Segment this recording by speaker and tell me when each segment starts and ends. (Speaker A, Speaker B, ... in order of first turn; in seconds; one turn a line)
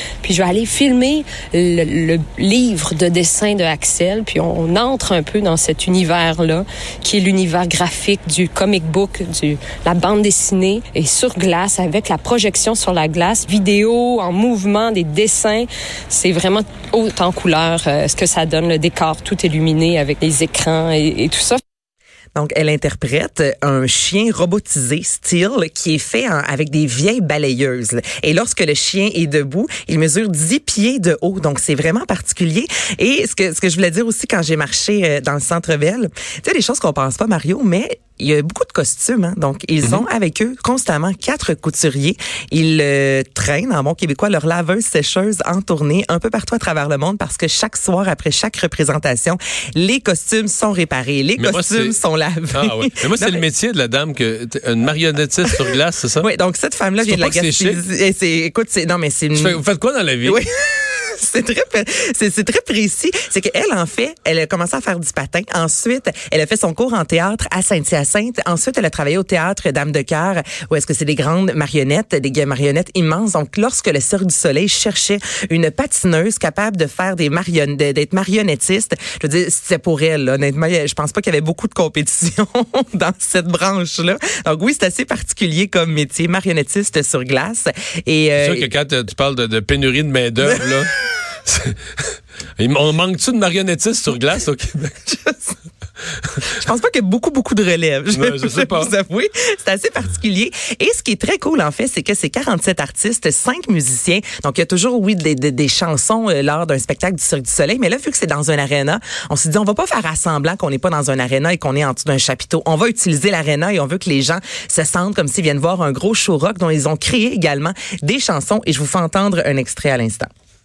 Speaker A: 0.2-21.6
Speaker B: 22.3-53.4
Speaker C: 51.4-52.0
Speaker C: 52.5-56.3
Speaker B: 55.4-59.6
Speaker C: 57.0-57.8
Speaker C: 59.3-60.4
Speaker B: 60.2-88.7
Speaker C: 88.4-90.9
Speaker B: 90.4-90.8
Speaker C: 91.4-95.5
Speaker B: 96.4-120.3
Speaker C: 98.1-98.9